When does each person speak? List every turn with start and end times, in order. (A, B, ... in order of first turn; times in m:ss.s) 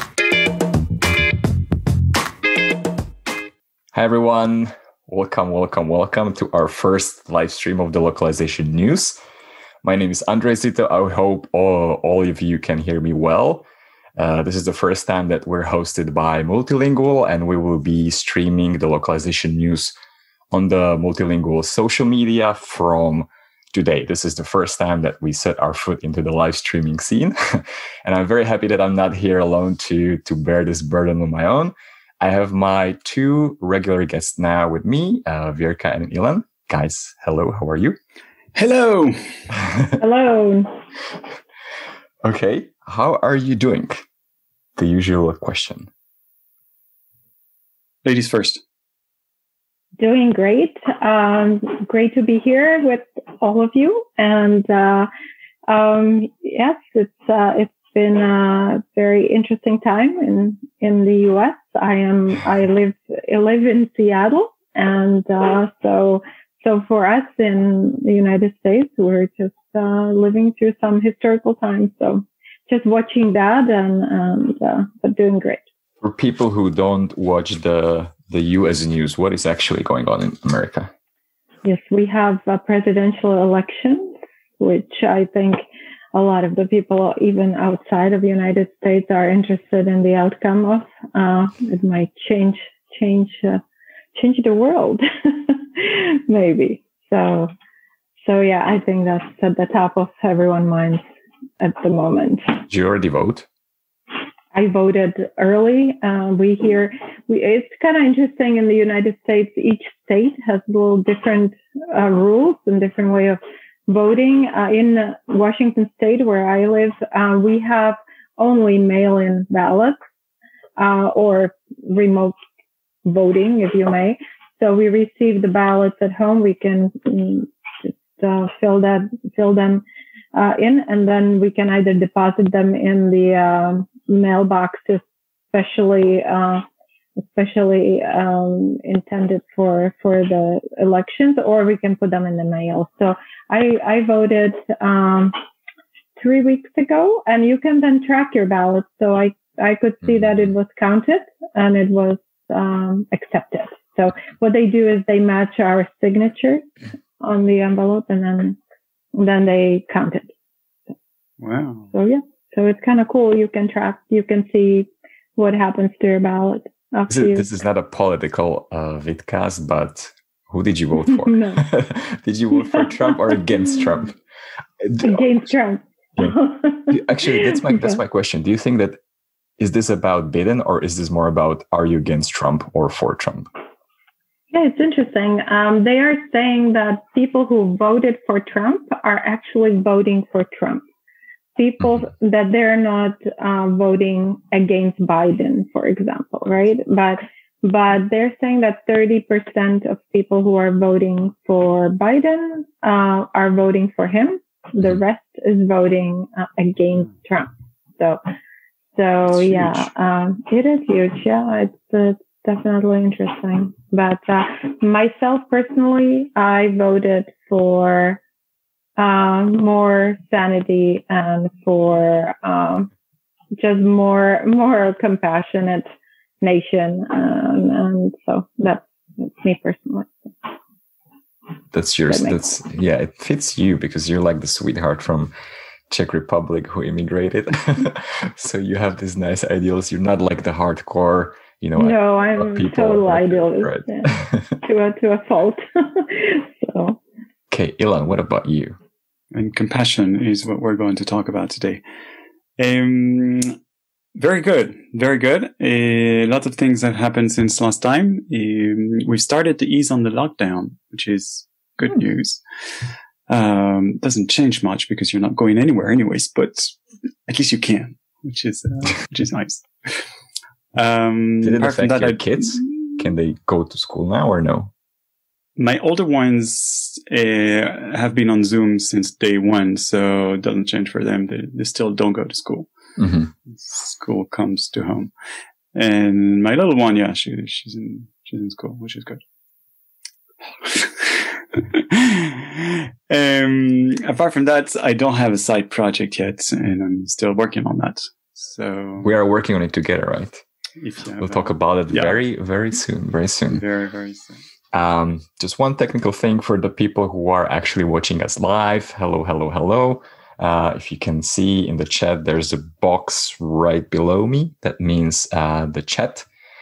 0:03.9-0:09.2 A
0:09.8-0:13.6 A
0:14.2-0:19.9 A
0:20.5-0:38.0 A
0:38.5-0:39.5 B
0:40.0-0:40.8 C
0:42.2-0:44.0 A
0:44.8-0:45.9 A
0:48.0-0:48.6 B
0:50.0-0:55.1 C
0:55.7-1:15.6 C
1:16.0-1:20.9 A
1:21.6-1:33.6 C
1:34.2-1:37.5 C
1:38.2-1:41.0 C
1:41.6-1:42.6 C
1:42.7-1:43.5 A
1:44.5-2:00.0 C
2:00.8-2:02.3 C
2:03.0-2:16.6 C
2:17.2-2:25.4 C
2:26.2-2:36.6 C
2:37.2-2:38.6 C
2:39.1-2:40.3 C
2:41.4-2:41.9 B
2:41.9-2:47.4 C
2:47.1-2:54.2 A
2:51.0-2:51.6 C
2:52.6-2:53.8 C
2:54.8-2:55.2 A
2:55.0-2:58.0 C
2:56.2-2:59.0 A
2:59.6-3:03.5 A
3:04.5-3:10.8 C
3:11.6-3:28.2 C
3:28.9-3:38.2 C
3:29.5-3:29.7 A
3:39.0-3:42.9 C
3:43.6-3:45.9 C
3:46.4-3:50.5 C
3:51.7-3:55.3 A
3:52.1-3:52.4 C
3:55.9-4:04.6 A
4:01.8-4:07.0 C
4:07.5-4:08.8 A
4:09.3-4:11.8 B
4:12.6-4:13.6 B
4:14.1-4:30.1 B
4:30.7-4:32.9 B
4:31.4-4:34.7 A
4:35.6-4:42.7 B
4:43.0-4:43.3 A
4:43.5-4:45.1 B
4:45.7-4:49.2 B
4:50.4-4:59.1 B
4:59.0-5:00.4 A
5:00.8-5:02.2 B
5:01.2-5:03.6 A
5:03.5-5:04.4 B
5:04.7-5:16.2 A